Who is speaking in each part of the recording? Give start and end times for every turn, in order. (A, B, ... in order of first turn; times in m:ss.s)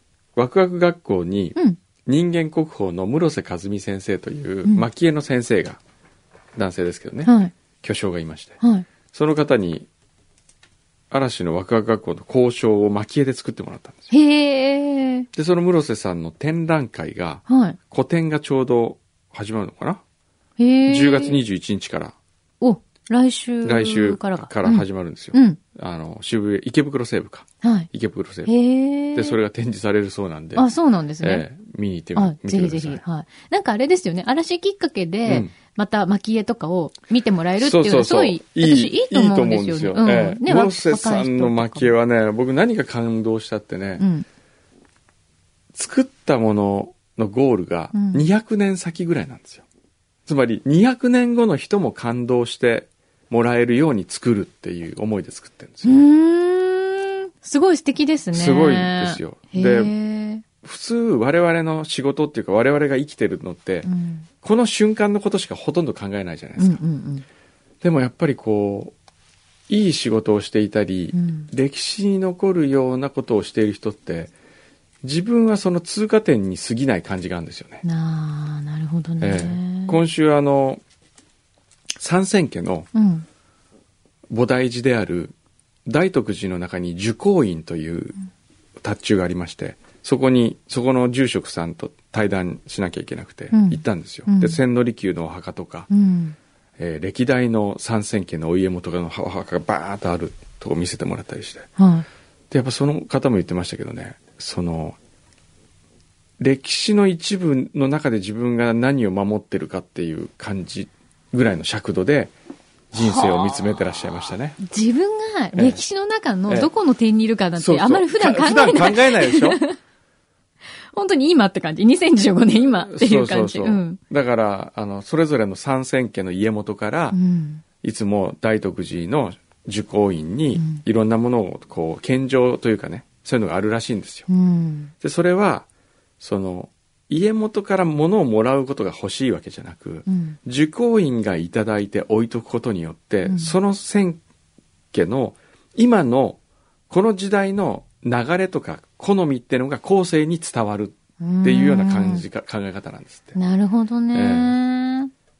0:00.4-0:05.8 A
0:06.6-0:08.6 A
0:07.2-0:07.5 B
0:08.6-0:08.9 B
0:09.1-0:09.9 A
0:11.1-0:14.1 A
0:14.1-0:15.3 B
0:15.3-0:20.0 A
0:17.5-0:17.8 B
0:20.6-0:21.4 B
0:20.9-0:22.2 A
0:22.6-0:25.6 B
0:23.6-0:28.5 A
0:27.6-0:27.9 B
0:28.5-0:29.4 B
0:29.1-0:30.7 A
0:30.6-0:31.4 B
0:31.2-0:33.0 A
0:32.2-0:41.9 B
0:35.3-0:35.5 A
0:37.6-0:44.0 A
0:44.0-0:44.2 B
0:45.7-0:49.6 A
0:47.9-0:48.2 B
0:50.3-0:56.0 A
0:55.8-1:00.4 B
0:58.3-0:59.9 A
1:00.6-1:03.9 A
1:03.8-1:04.3 B
1:04.4-1:06.8 A
1:06.6-1:07.2 B
1:07.8-1:08.9 A
1:09.7-1:14.3 A
1:11.1-1:11.5 B
1:15.0-1:17.8 A
1:17.8-1:20.0 B
1:19.2-1:20.8 A
1:22.0-1:22.9 A
1:22.9-1:23.2 B
1:24.3-1:25.3 A
1:25.9-1:28.2 A
1:28.8-1:35.9 A
1:33.5-1:34.6 B
1:35.9-1:36.4 B
1:36.8-1:41.7 A
1:41.8-1:42.1 B
1:42.5-1:45.0 A
1:46.4-1:52.3 A
1:52.9-1:54.6 A
1:53.0-1:53.6 B
1:54.6-1:59.8 B
1:55.5-1:55.8 A
1:57.6-1:59.6 A
2:00.9-2:04.0 B
2:02.9-2:07.2 A
2:07.1-2:07.6 B
2:07.8-2:14.3 A
2:10.6-2:10.8 B
2:14.3-2:14.9 B
2:15.0-2:15.7 A
2:16.2-2:24.2 A
2:20.1-2:20.4 B
2:23.2-2:23.6 B
2:24.9-2:26.4 A
2:26.9-2:33.4 A
2:31.2-2:32.2 B
2:33.4-2:35.1 B
2:34.1-2:34.6 A